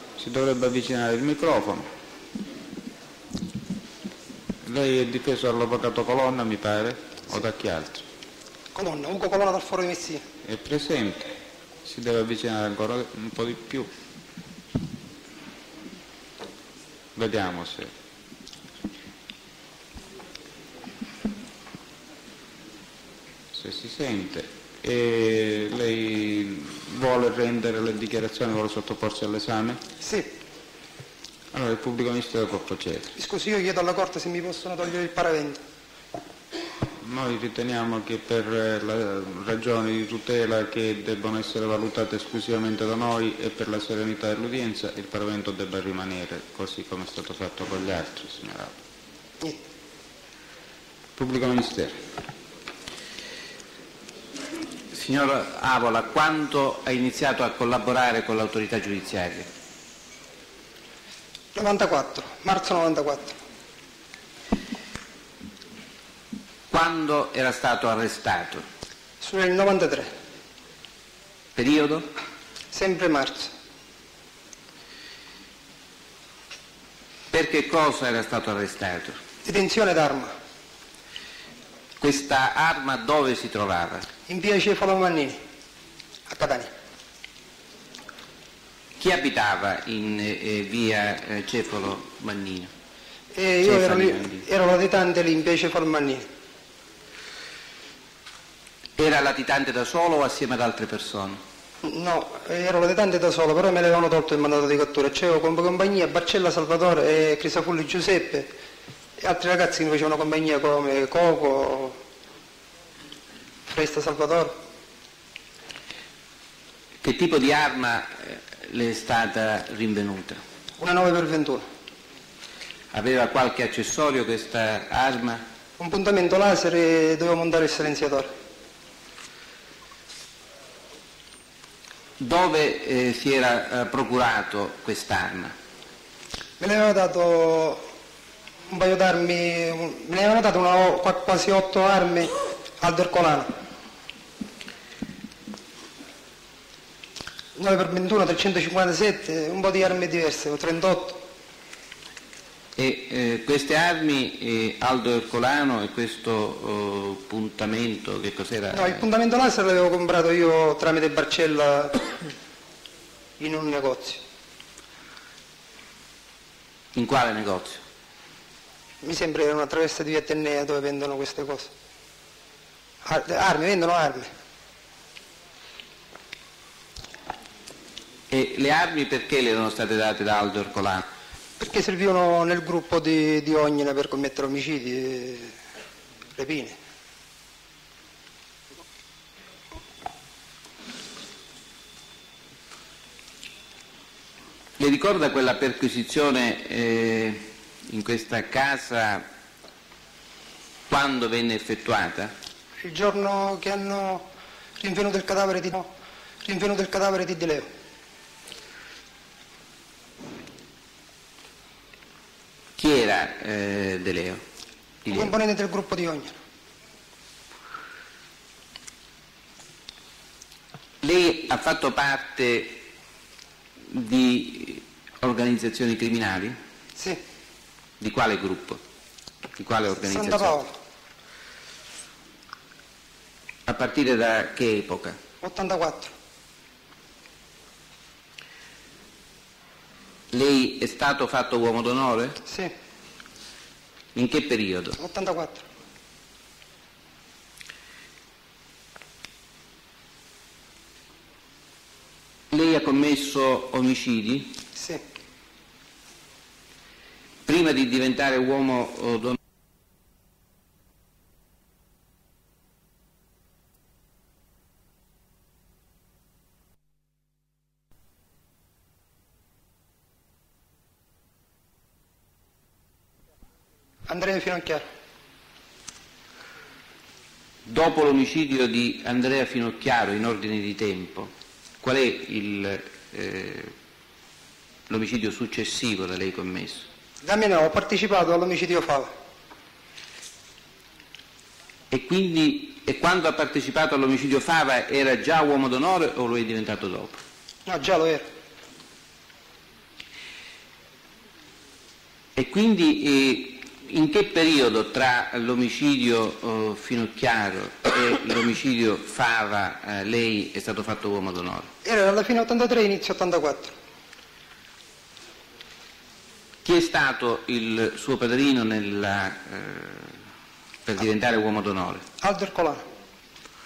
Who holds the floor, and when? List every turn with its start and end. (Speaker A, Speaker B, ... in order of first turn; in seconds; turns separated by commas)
Speaker A: 0.2-1.9, Speaker A: 4.7-8.1, Speaker B: 8.8-10.2, Speaker A: 10.4-11.3, Speaker A: 11.8-13.9, Speaker A: 17.1-17.9, Speaker A: 23.5-29.8, Speaker B: 30.0-30.3, Speaker A: 31.5-33.1, Speaker B: 33.2-35.6, Speaker A: 37.0-48.8, Speaker A: 51.2-52.0, Speaker C: 54.9-59.5, Speaker B: 61.5-63.4, Speaker C: 66.7-68.7, Speaker B: 69.2-70.1, Speaker C: 71.6-72.1, Speaker B: 72.7-73.5, Speaker C: 77.3-79.2, Speaker B: 79.5-80.3, Speaker C: 82.0-84.1, Speaker B: 84.3-85.4, Speaker B: 86.3-86.7, Speaker C: 89.0-92.7, Speaker B: 93.3-96.3, Speaker C: 93.6-94.4, Speaker C: 99.0-101.4, Speaker B: 101.8-108.5, Speaker B: 109.2-112.0, Speaker B: 113.7-114.6, Speaker C: 117.0-120.4, Speaker B: 120.8-121.7, Speaker C: 122.9-125.4, Speaker B: 125.8-128.3, Speaker C: 132.2-135.5, Speaker B: 136.6-137.8, Speaker B: 138.7-143.5, Speaker B: 147.6-151.2, Speaker C: 152.8-159.1, Speaker B: 158.7-162.0, Speaker B: 163.4-164.2, Speaker C: 166.9-167.8, Speaker B: 169.0-171.7, Speaker B: 173.0-174.3, Speaker C: 178.3-181.1, Speaker B: 181.6-185.5, Speaker B: 186.4-186.8, Speaker C: 194.8-199.2, Speaker C: 200.9-202.3, Speaker B: 202.8-204.3, Speaker B: 204.8-205.9, Speaker B: 206.4-207.7, Speaker C: 212.8-214.4, Speaker C: 215.1-215.3, Speaker B: 215.1-216.4, Speaker C: 221.0-222.8, Speaker C: 223.9-226.6, Speaker C: 228.0-228.8, Speaker C: 229.6-230.6, Speaker B: 230.0-230.7, Speaker C: 233.7-235.2, Speaker B: 235.4-236.1, Speaker C: 240.3-242.4, Speaker B: 242.5-242.7, Speaker C: 244.2-245.0, Speaker B: 245.0-245.6, Speaker C: 252.5-254.6, Speaker B: 254.8-255.0, Speaker C: 257.5-259.4, Speaker B: 274.1-274.8, Speaker C: 277.7-281.3, Speaker C: 281.8-283.7, Speaker C: 284.9-286.9, Speaker B: 287.2-289.1, Speaker C: 291.9-297.2, Speaker B: 297.7-298.3, Speaker C: 302.4-311.7, Speaker B: 311.9-313.8, Speaker C: 316.6-320.2, Speaker C: 320.9-322.0, Speaker B: 322.2-322.8